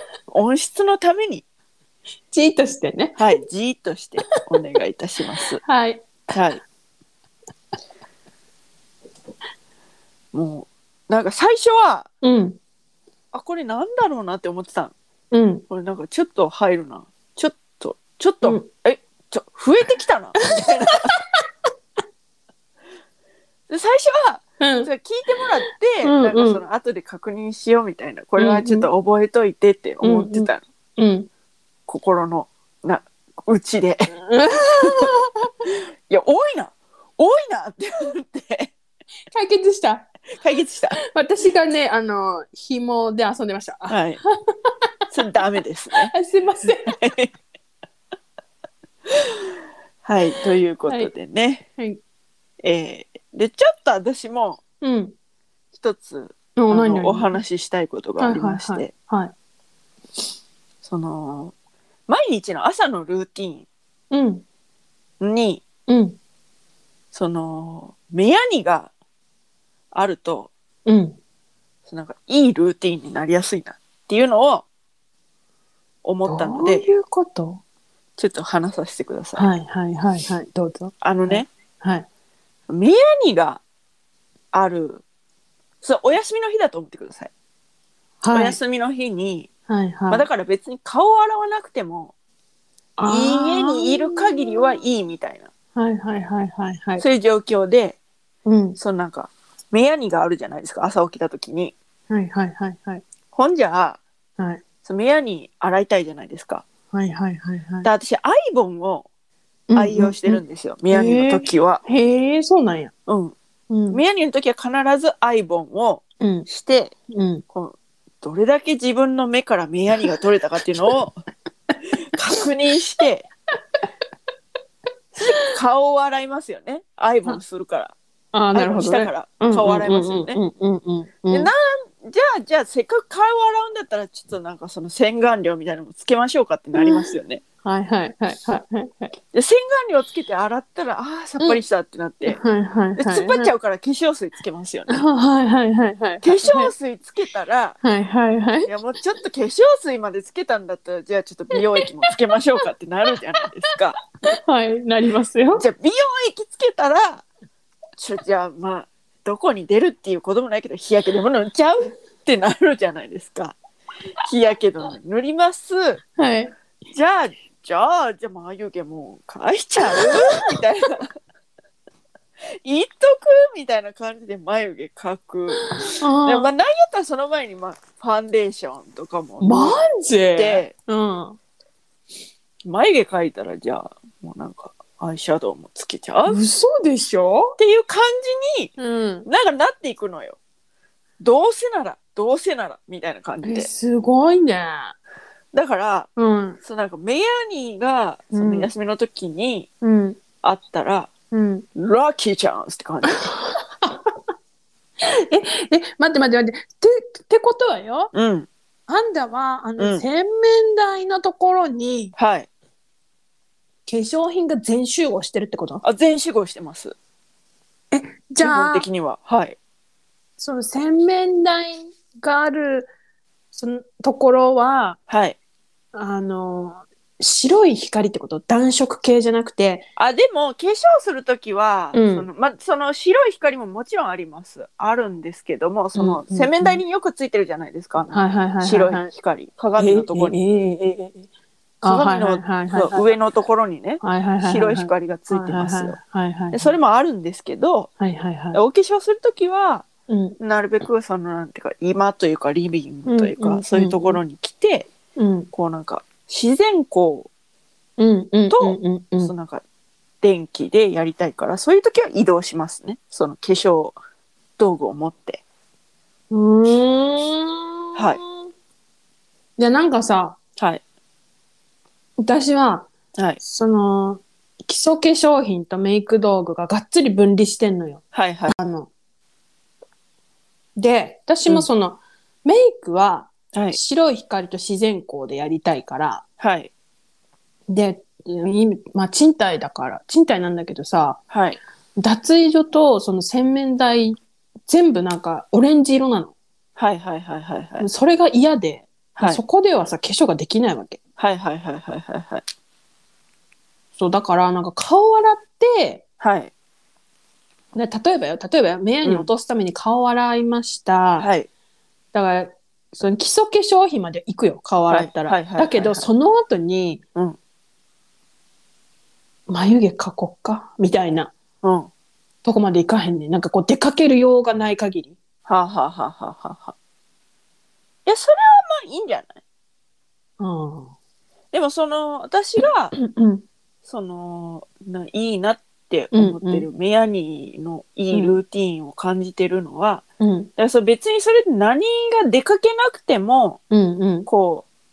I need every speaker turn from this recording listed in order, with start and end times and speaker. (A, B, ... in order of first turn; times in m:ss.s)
0:00.3-0:01.4 A
0:02.3-0:03.2 B
0:03.2-0:05.6 A
0:05.6-0:06.1 B
0:06.3-0:06.6 A
0:10.3-0:12.1 A
0:12.2-0:12.6 B
0:13.3-0:14.9 A
0:15.3-0:15.6 B
0:15.7-0:21.1 A
0:23.7-0:30.6 A
0:24.6-0:24.9 B
0:26.0-0:26.6 B
0:28.4-0:28.9 B
0:30.0-0:31.3 B
0:31.9-0:34.2 A
0:34.3-0:35.5 B
0:34.8-0:35.1 A
0:35.7-0:38.7 A
0:39.3-0:40.1 B
0:40.4-0:41.0 A
0:41.0-0:44.8 B
0:43.9-0:44.2 A
0:45.1-0:46.1 A
0:46.0-0:47.0 B
0:46.8-0:47.3 A
0:50.0-0:51.6 A
0:50.9-0:51.1 B
0:52.6-0:54.6 A
0:54.8-0:55.1 B
0:55.7-0:58.9 A
0:56.6-0:57.4 B
0:58.2-0:59.3 B
1:00.8-1:01.5 A
1:02.1-1:03.6 A
1:04.1-1:04.4 B
1:05.2-1:05.6 A
1:05.9-1:06.2 B
1:07.1-1:08.9 A
1:09.9-1:10.5 A
1:10.8-1:11.2 B
1:11.8-1:14.6 A
1:16.0-1:16.9 A
1:16.2-1:17.6 B
1:18.2-1:19.4 A
1:19.4-1:22.0 B
1:21.0-1:21.5 A
1:22.7-1:23.6 A
1:24.5-1:25.0 A
1:25.8-1:27.3 A
1:28.2-1:28.6 B
1:28.3-1:29.5 A
1:29.7-1:30.2 B
1:30.1-1:32.1 A
1:33.0-1:34.6 B
1:33.1-1:35.5 A
1:35.7-1:37.0 B
1:37.0-1:38.0 A
1:38.4-1:38.8 B
1:38.8-1:41.7 A
1:42.1-1:43.0 B
1:43.3-1:44.0 A
1:44.8-1:46.6 A
1:46.9-1:47.9 B
1:47.8-1:49.0 A
1:49.7-1:52.9 B
1:49.7-1:51.8 A
1:53.1-1:53.3 A
1:53.7-1:54.0 B
1:53.9-1:56.9 A
1:56.2-1:56.5 B
1:57.1-1:57.4 B
1:57.5-2:01.2 A
2:02.0-2:03.3 A
2:05.1-2:07.9 A
2:08.3-2:11.5 B
2:08.5-2:10.4 A
2:11.3-2:17.4 A
2:16.8-2:17.1 B
2:17.6-2:19.1 B
2:19.3-2:22.4 A
2:22.2-2:23.5 B
2:23.0-2:25.1 A
2:24.9-2:26.7 B
2:26.2-2:27.8 A
2:27.8-2:28.7 B
2:28.6-2:34.0 A
2:34.3-2:35.6 B
2:35.5-2:37.2 A
2:38.0-2:43.6 A
2:44.2-2:46.0 A
2:46.2-2:46.5 B
2:46.9-2:51.1 A
2:49.9-2:50.2 B
2:52.6-2:59.8 A
2:56.0-2:56.5 B
2:59.4-3:01.4 B
3:00.4-3:00.7 A
3:02.6-3:06.4 A
3:06.3-3:07.6 B
3:07.6-3:08.7 A
3:08.8-3:09.3 B
3:09.2-3:10.4 A
3:11.2-3:13.7 A
3:13.4-3:14.9 B
3:15.5-3:16.1 A
3:16.2-3:16.6 B
3:16.6-3:19.7 A
3:18.3-3:18.7 B
3:19.8-3:20.2 B
3:20.4-3:21.1 A
3:21.3-3:21.6 B
3:21.7-3:23.2 A
3:23.1-3:24.1 B
3:25.0-3:28.1 B
3:28.1-3:28.5 A
3:28.9-3:32.1 B
3:29.8-3:30.0 A
3:32.2-3:32.5 A
3:33.8-3:35.8 B
3:35.8-3:36.9 A
3:37.9-3:38.9 B
3:38.4-3:39.6 A
3:40.4-3:42.9 B
3:43.5-3:45.0 B
3:45.1-3:45.4 A
3:45.9-3:49.9 B
3:50.0-4:00.4 A
3:51.9-3:52.3 B
3:55.9-3:56.8 B
3:58.1-3:59.1 B
3:59.8-4:01.3 B
4:01.8-4:03.1 B
4:01.8-4:06.0 A
4:04.0-4:06.7 B
4:06.5-4:07.9 A
4:08.0-4:08.6 B
4:08.5-4:14.9 A
4:10.1-4:10.4 B
4:13.0-4:14.2 B
4:15.2-4:15.5 B
4:15.5-4:17.3 A
4:18.0-4:19.3 B
4:18.5-4:19.6 A
4:20.2-4:24.0 A
4:24.6-4:25.4 A
4:26.3-4:28.4 B
4:27.9-4:28.2 A
4:29.6-4:30.4 B
4:30.6-4:30.8 A
4:32.2-4:38.0 B
4:38.1-4:38.5 A
4:38.5-4:38.9 B
4:40.8-4:46.2 B
4:43.5-4:43.8 A
4:46.4-4:46.7 A
4:47.7-4:51.2 B
4:51.3-4:51.6 A
4:52.0-4:56.3 B
4:56.8-4:57.9 A
4:57.8-5:01.0 B
4:59.2-4:59.4 A
5:01.2-5:02.4 A
5:04.0-5:06.0 B
5:06.2-5:06.5 A
5:07.7-5:11.3 B
5:09.0-5:09.3 A
5:11.2-5:11.5 A
5:12.1-5:17.0 B
5:14.9-5:16.0 A
5:19.5-5:21.3 B
5:21.6-5:21.9 A
5:22.4-5:25.2 B
5:25.4-5:26.7 A
5:28.0-5:29.4 A
5:30.4-5:30.9 B
5:31.5-5:32.9 A
5:32.9-5:33.4 B
5:33.8-5:40.0 A
5:36.1-5:36.6 B
5:38.1-5:38.4 B
5:40.2-5:40.5 B
5:40.6-5:43.6 A
5:43.7-5:44.3 B
5:44.3-5:44.6 A